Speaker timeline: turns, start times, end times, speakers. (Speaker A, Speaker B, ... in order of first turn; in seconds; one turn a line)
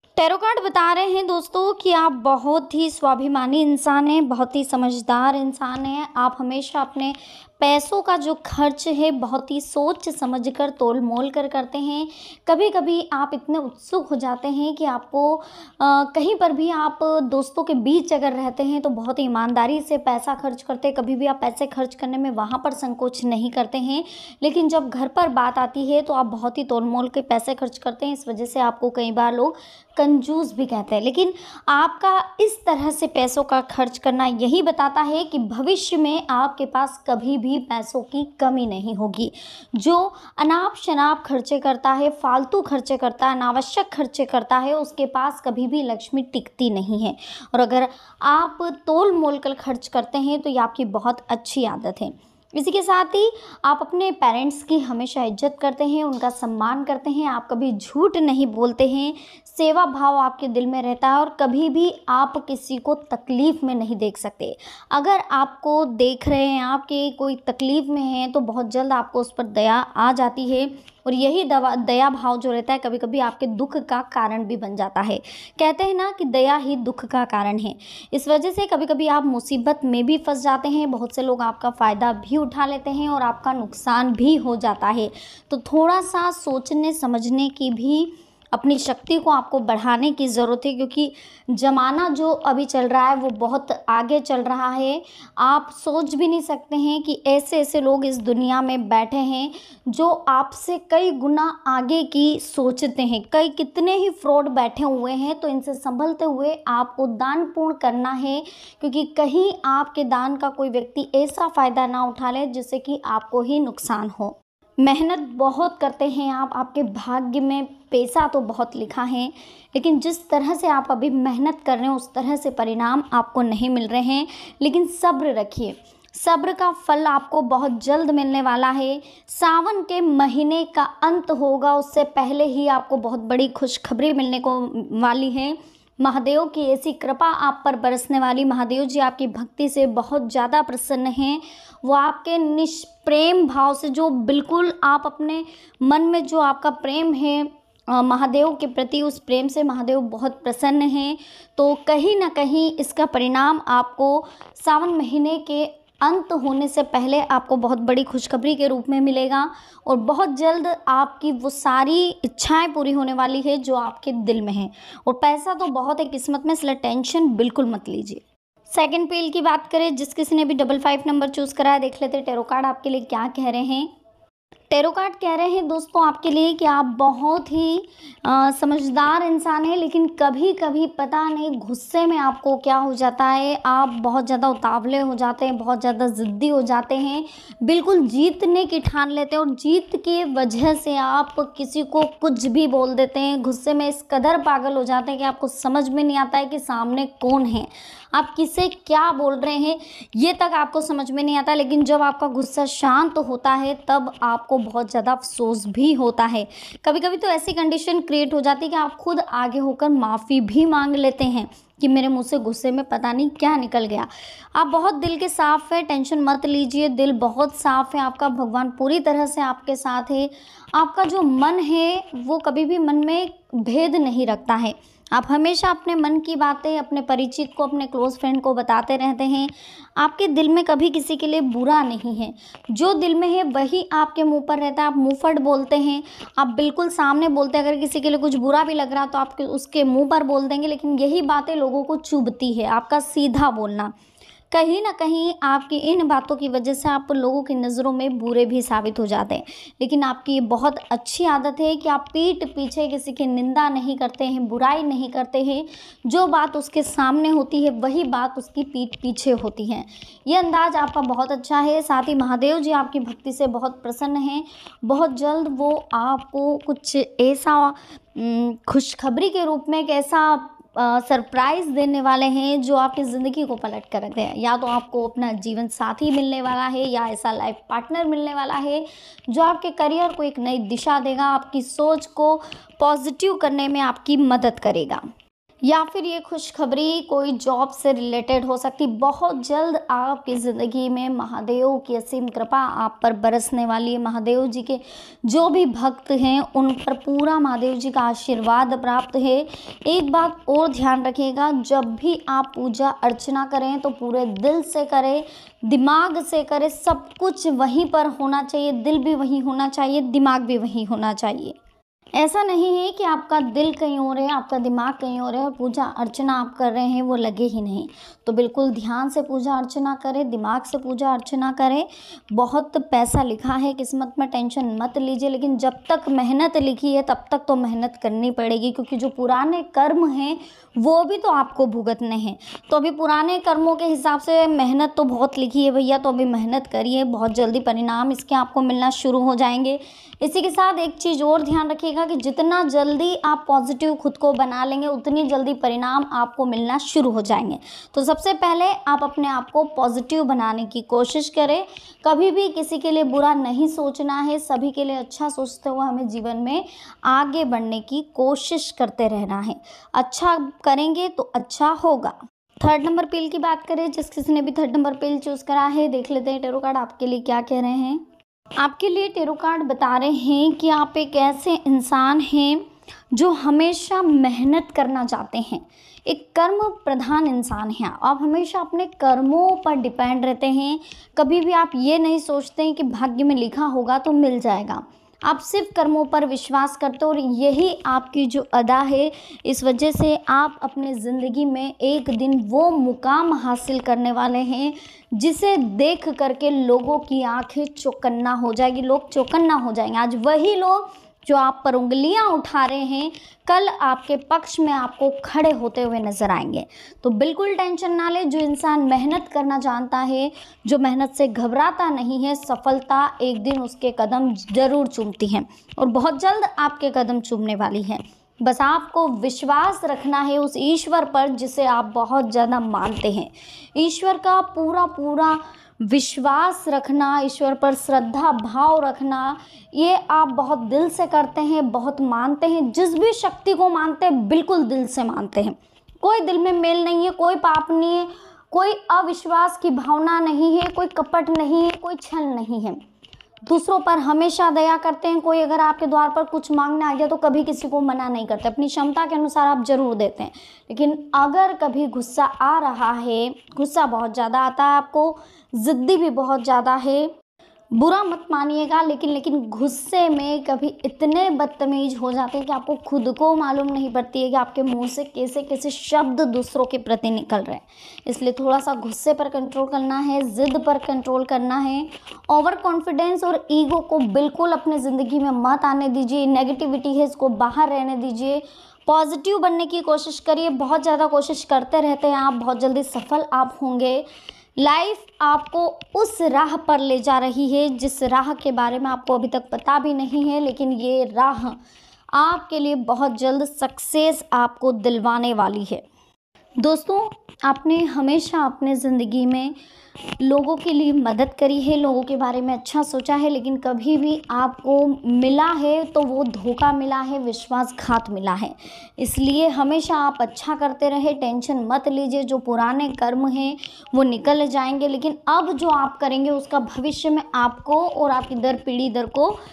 Speaker A: 0.2-173.9
Speaker A: 174.7-243.9
Speaker A: 244.5-285.0
Speaker A: 285.6-311.6
Speaker A: 312.2-368.0
Speaker A: 368.6-442.8
Speaker A: 443.5-457.1
Speaker A: 457.7-484.1
Speaker A: 484.6-491.6
Speaker A: 492.1-495.8
Speaker A: 496.6-499.5
Speaker A: 500.2-519.4